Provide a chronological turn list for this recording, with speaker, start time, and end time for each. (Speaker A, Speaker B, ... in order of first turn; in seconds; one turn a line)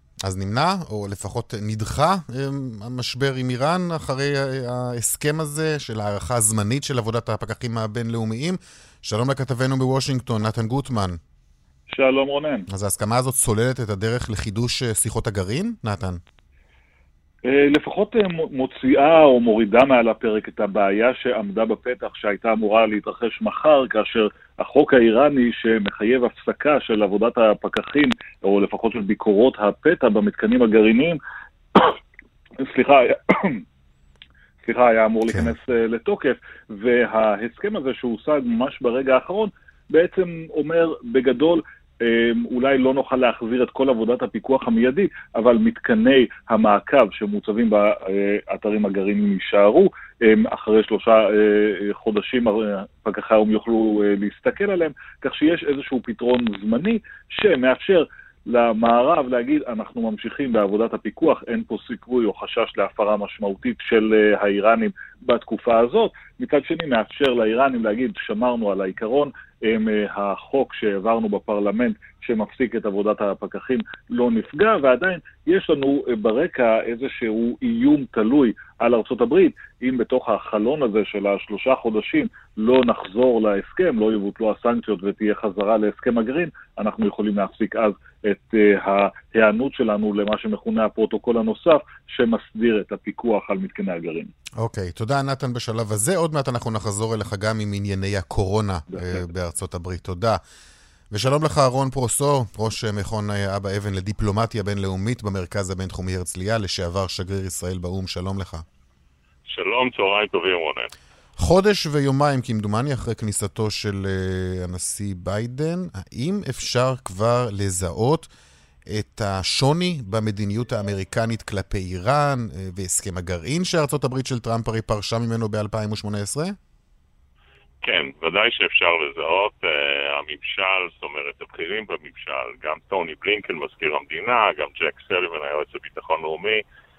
Speaker A: 0.2-11.2
Speaker B: 11.9-12.7
Speaker A: 12.7-16.2
Speaker B: 17.4-31.2
Speaker B: 32.6-33.6
Speaker B: 34.6-94.3
Speaker A: 94.6-100.4
Speaker B: 98.9-99.2
Speaker A: 101.1-108.6
Speaker C: 109.5-110.9
Speaker A: 111.4-118.3
Speaker A: 118.9-126.5
Speaker C: 127.8-136.6